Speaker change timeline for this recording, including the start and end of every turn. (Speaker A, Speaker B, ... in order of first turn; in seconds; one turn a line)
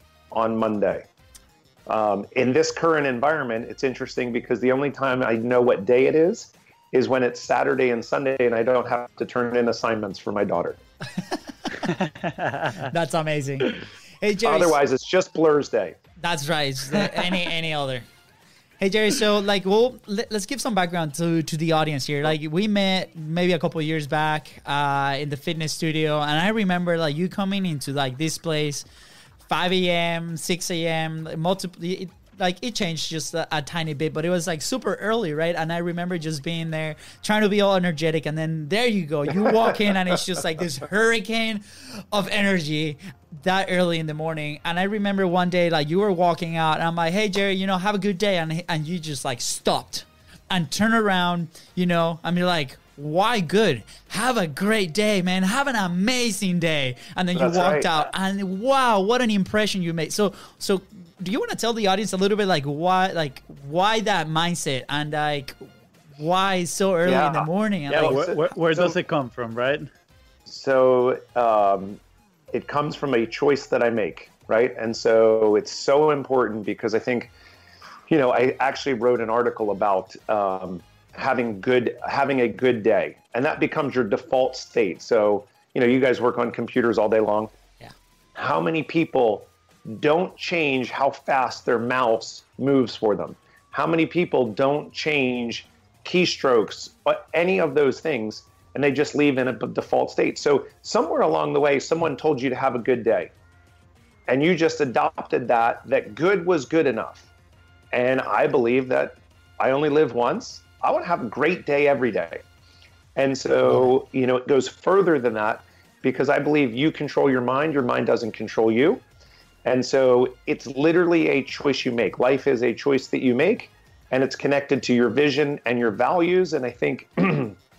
Speaker A: 0.3-1.0
Speaker A: 1.9-10.8
Speaker B: 11.8-12.9
Speaker C: 12.8-14.8
Speaker A: 14.4-15.9
Speaker C: 16.2-18.0
Speaker B: 17.0-17.4
Speaker C: 18.8-28.8
Speaker C: 29.4-65.6
Speaker A: 57.3-57.9
Speaker C: 66.2-68.2
Speaker A: 67.0-68.9
Speaker B: 67.9-69.9
Speaker A: 70.5-72.0
Speaker A: 72.5-77.3
Speaker A: 78.1-87.5
Speaker A: 88.3-103.3
Speaker A: 104.3-107.3
Speaker A: 107.9-112.4
Speaker A: 113.1-119.0
Speaker C: 113.6-113.9
Speaker A: 119.6-127.6